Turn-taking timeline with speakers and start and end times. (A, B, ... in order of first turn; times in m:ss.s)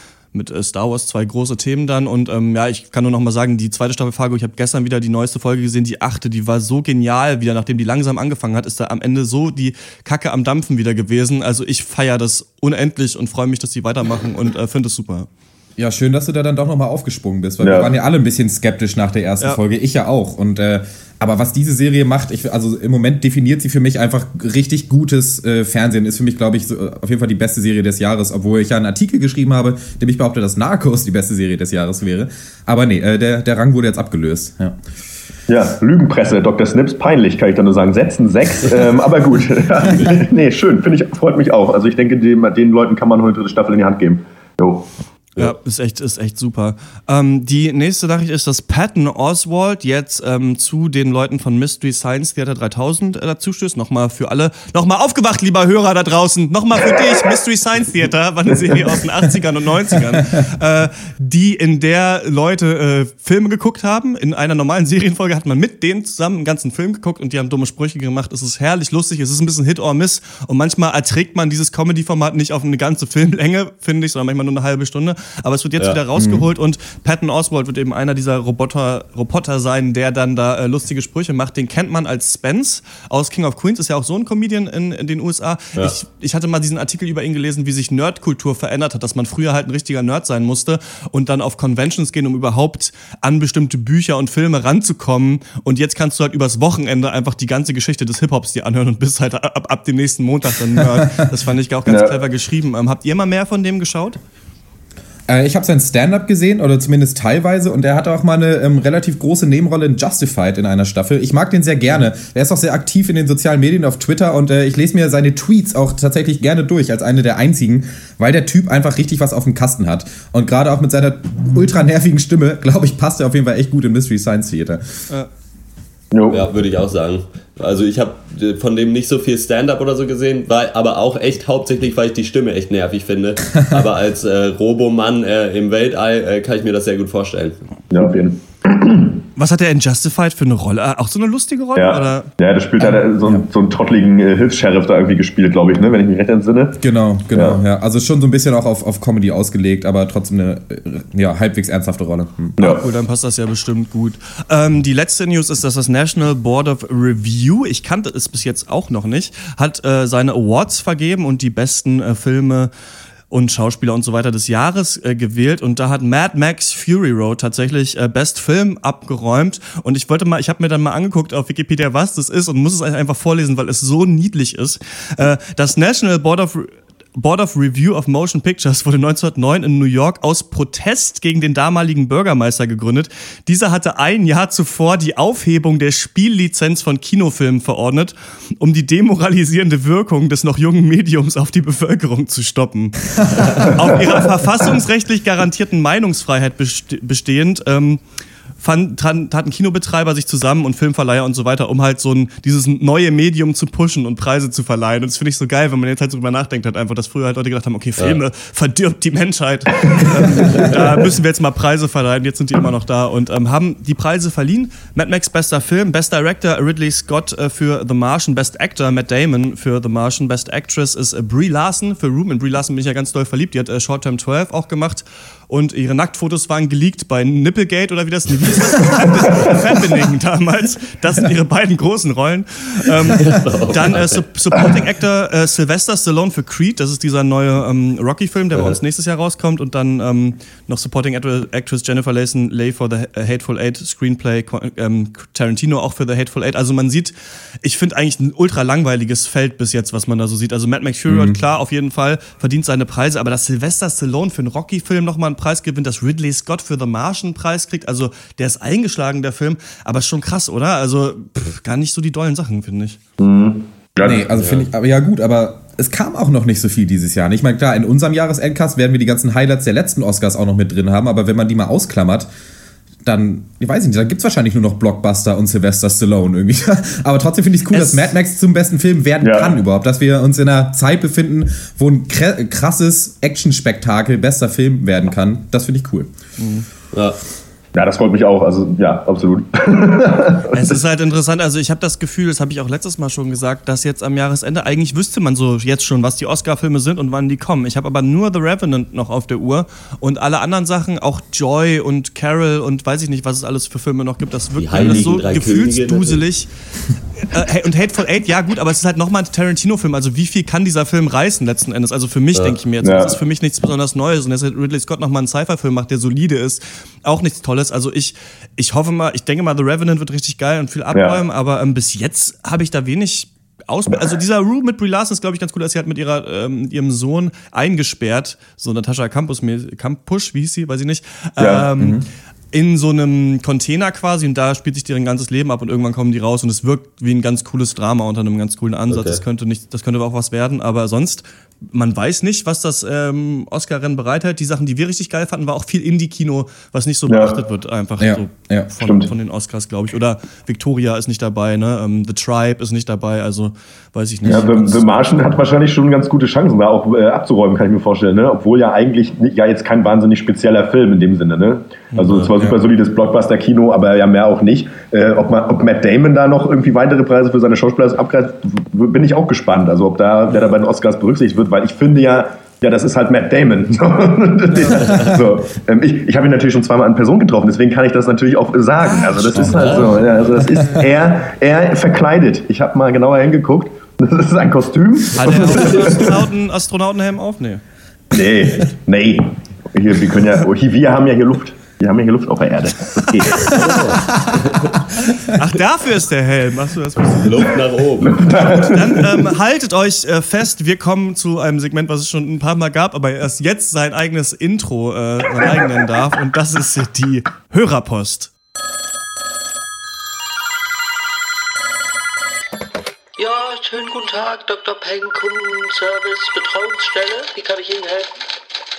0:00.3-0:15.3 A
0:15.8-0:34.8 B
0:17.6-0:17.9 C
0:35.5-0:44.9 C
0:45.4-1:44.2 A
1:16.1-1:16.4 B
1:40.8-1:41.2 B
1:41.9-1:42.2 C
1:45.3-2:04.8 B
2:06.1-2:06.4 C
2:06.3-2:17.6 D
2:17.9-2:19.2 C
2:19.4-2:22.3 A
2:21.8-2:26.8 C
2:26.8-2:32.6 B
2:27.3-2:27.6 C
2:32.6-2:32.8 C
2:32.6-2:42.7 A
2:43.3-3:18.0 A
3:18.6-4:07.1 A
3:53.1-3:54.2 D
3:58.5-3:58.8 D
4:07.6-4:23.0 A
4:11.1-4:11.4 B
4:23.2-4:24.3 C
4:24.0-4:32.3 B
4:24.4-4:24.7 D
4:33.0-4:46.1 B
4:37.7-4:38.1 A
4:39.2-4:39.5 C
4:46.4-4:46.6 A
4:47.8-4:50.6 C
4:50.5-5:06.5 A
5:04.6-5:06.2 D
5:07.2-5:32.0 A
5:12.8-5:13.2 C
5:20.9-5:21.2 C
5:31.4-5:31.7 C
5:31.8-5:32.1 B
5:32.5-5:55.2 A
5:38.9-5:39.2 D
5:47.1-5:47.4 C
5:48.0-5:48.7 B
5:48.8-5:49.1 C
5:54.3-6:26.2 C
6:01.9-6:02.3 A
6:19.2-6:19.6 A
6:19.4-6:20.4 D
6:25.2-6:27.6 A
6:28.1-6:33.8 C
6:33.5-6:34.8 D
6:35.0-6:37.5 A
6:37.1-6:38.3 D
6:38.0-6:39.2 C
6:38.3-6:48.3 A
6:53.2-6:58.1 E